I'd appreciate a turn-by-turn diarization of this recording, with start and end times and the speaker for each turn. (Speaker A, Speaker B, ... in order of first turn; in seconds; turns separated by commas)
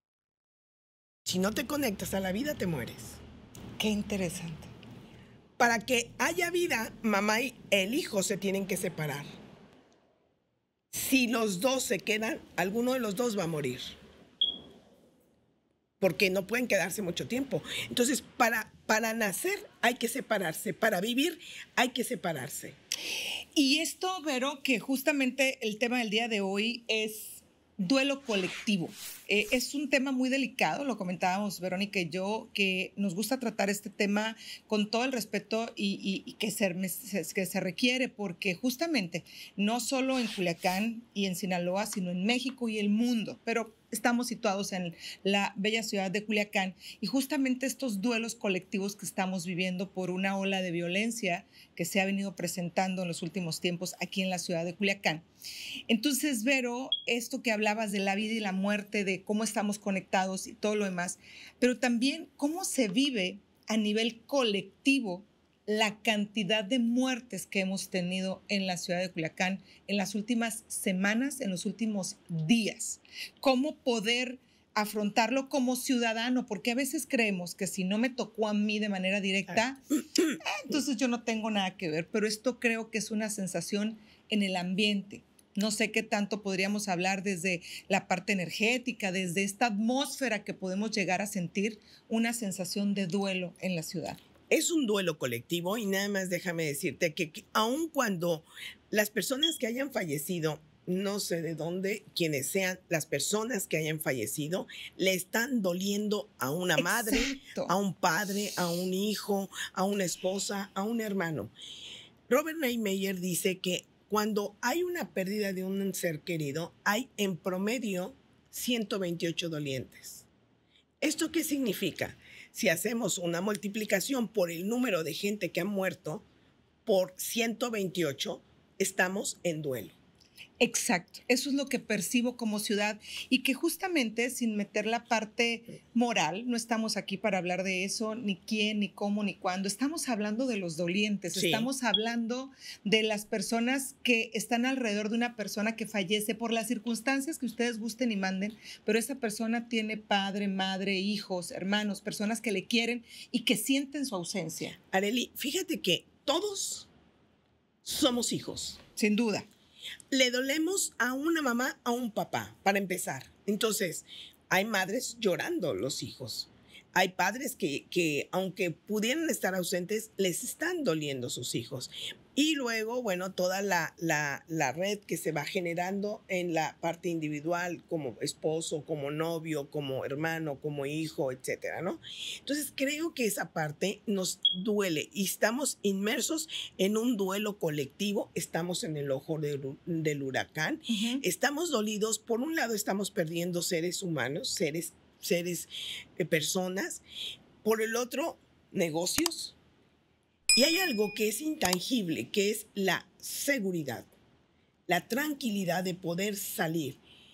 Speaker A: 1.2-3.2, Speaker B: 3.8-4.7, Speaker A: 5.6-9.3, Speaker A: 10.9-13.8, Speaker A: 16.0-22.8, Speaker B: 23.6-55.3, Speaker B: 55.9-79.8, Speaker B: 80.4-94.2, Speaker A: 94.5-111.5, Speaker B: 106.8-107.7, Speaker A: 112.3-120.3, Speaker A: 121.0-126.2, Speaker A: 126.8-130.0, Speaker B: 130.6-154.8, Speaker A: 141.3-141.7, Speaker A: 154.9-156.9, Speaker A: 157.8-158.8, Speaker B: 159.0-159.5, Speaker A: 160.1-197.0, Speaker B: 190.9-191.2, Speaker A: 197.6-199.6, Speaker A: 200.6-204.1, Speaker A: 204.9-207.0